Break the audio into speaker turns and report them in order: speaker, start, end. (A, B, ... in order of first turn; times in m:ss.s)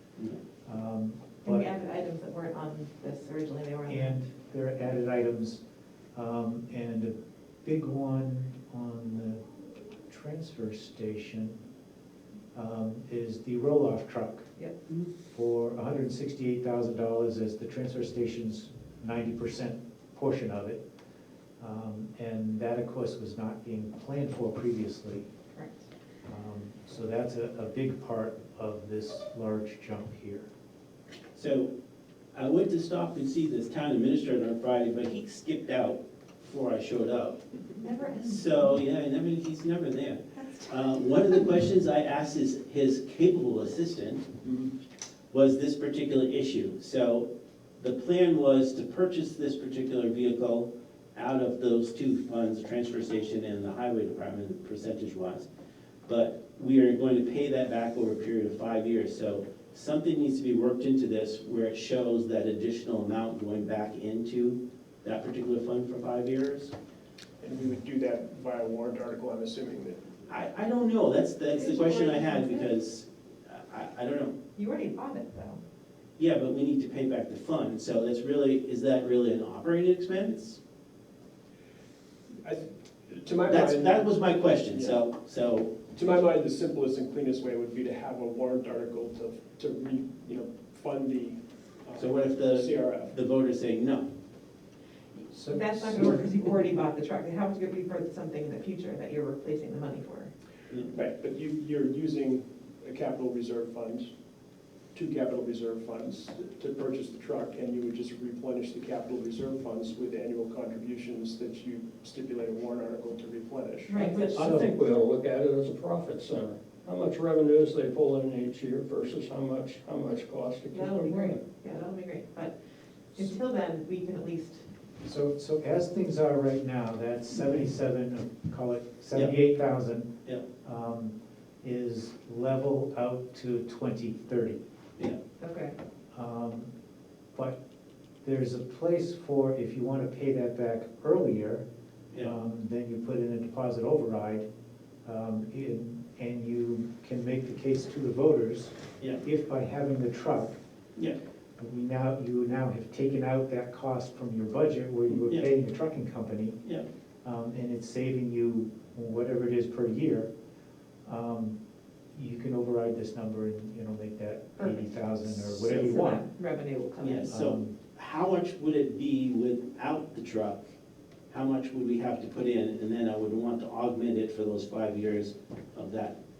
0:00.6-0:01.7 A
0:01.4-0:04.2 B
0:03.9-0:05.6 A
0:06.2-0:09.5 A
0:10.0-0:11.6 A
0:12.5-0:14.5 A
0:15.3-0:20.8 A
0:21.6-0:25.3 A
0:25.5-0:25.8 B
0:26.3-0:30.5 A
0:31.4-0:31.7 C
0:32.3-0:37.4 C
0:37.8-0:38.5 B
0:38.2-0:44.3 C
0:44.4-0:44.7 D
0:45.3-0:55.5 C
0:56.1-1:06.7 C
1:07.4-1:10.0 D
1:10.3-1:14.4 C
1:11.5-1:12.7 B
1:14.6-1:15.6 B
1:16.2-1:20.6 C
1:22.4-1:25.0 D
1:23.5-1:25.7 C
1:25.9-1:33.1 D
1:32.0-1:34.1 C
1:35.3-1:36.6 A
1:35.5-1:40.3 B
1:40.9-1:44.1 D
1:44.9-1:54.0 D
1:53.9-1:54.5 B
1:53.9-2:01.4 E
1:54.4-1:54.8 A
2:00.7-2:02.6 B
2:03.2-2:04.6 B
2:05.0-2:10.1 A
2:10.6-2:14.6 A
2:15.4-2:15.8 B
2:16.1-2:16.7 A
2:17.3-2:17.6 A
2:18.2-2:21.6 A
2:22.1-2:22.4 C
2:22.2-2:24.5 A
2:25.0-2:30.6 A
2:31.6-2:36.6 A
2:35.2-2:35.5 C
2:37.2-2:40.3 A
2:41.0-2:41.6 A
2:42.1-2:46.2 A
2:45.3-2:45.9 C
2:45.7-2:47.3 B
2:47.0-2:50.6 C
2:47.3-2:47.8 A
2:51.3-2:56.2 C